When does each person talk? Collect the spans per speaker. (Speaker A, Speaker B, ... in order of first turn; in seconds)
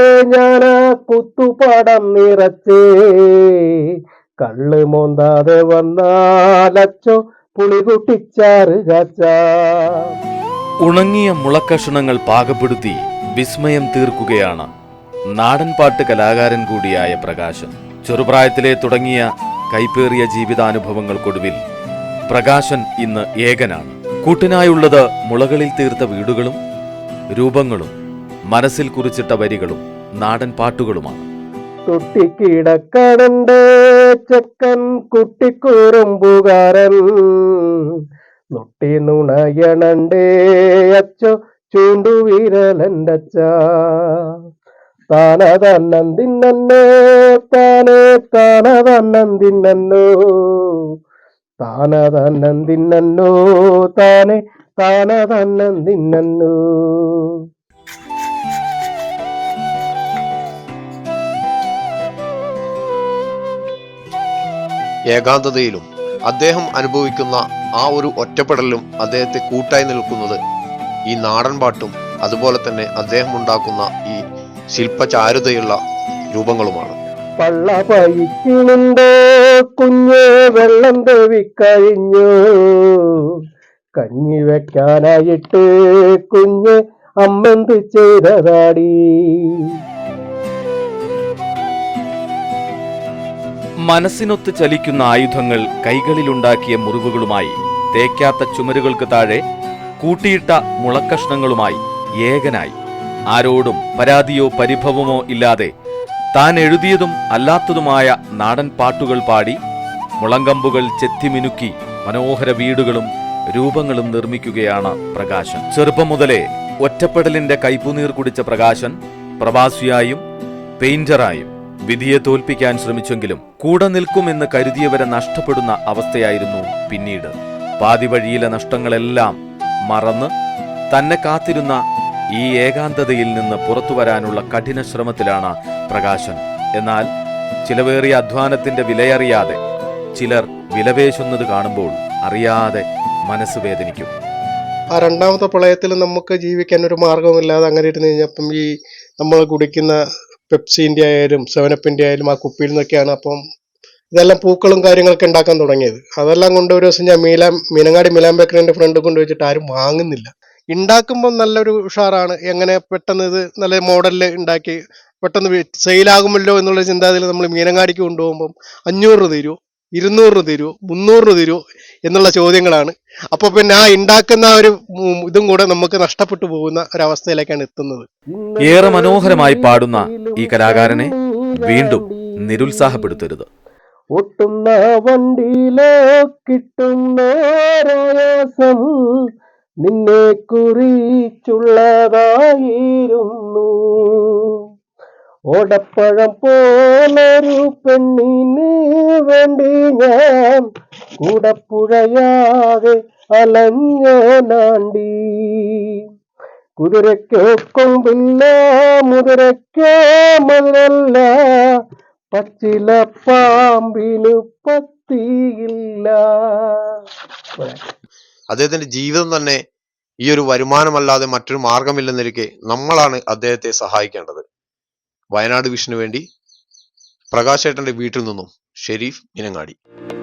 Speaker A: 0.3-3.4, 4.4-9.8, 31.9-37.5, 38.5-40.3, 41.0-44.2, 45.1-50.8, 51.6-53.4, 53.9-57.3, 77.4-79.1, 79.7-82.9, 84.0-85.7, 86.3-89.5, 178.3-183.2, 184.2-188.9, 189.8-194.6, 195.5-200.7, 201.2-205.8, 206.8-211.3, 212.3-216.8
Speaker B: 10.8-14.7, 15.4-21.6, 22.3-26.6, 27.3-27.9, 28.5-31.3, 93.9-99.4, 100.0-102.8, 103.3-105.7, 106.3-109.6, 110.2-120.2, 120.8-129.3, 129.9-130.3, 130.9-131.8, 132.4-137.1, 137.7-139.6, 140.2-144.1, 178.7-183.5
Speaker C: 65.1-70.4, 71.1-74.2, 74.7-75.8, 76.3-77.0, 218.5-219.6, 220.2-224.4, 225.3-226.2, 227.3-229.8
Speaker D: 144.9-150.0, 150.5-153.4, 154.1-178.1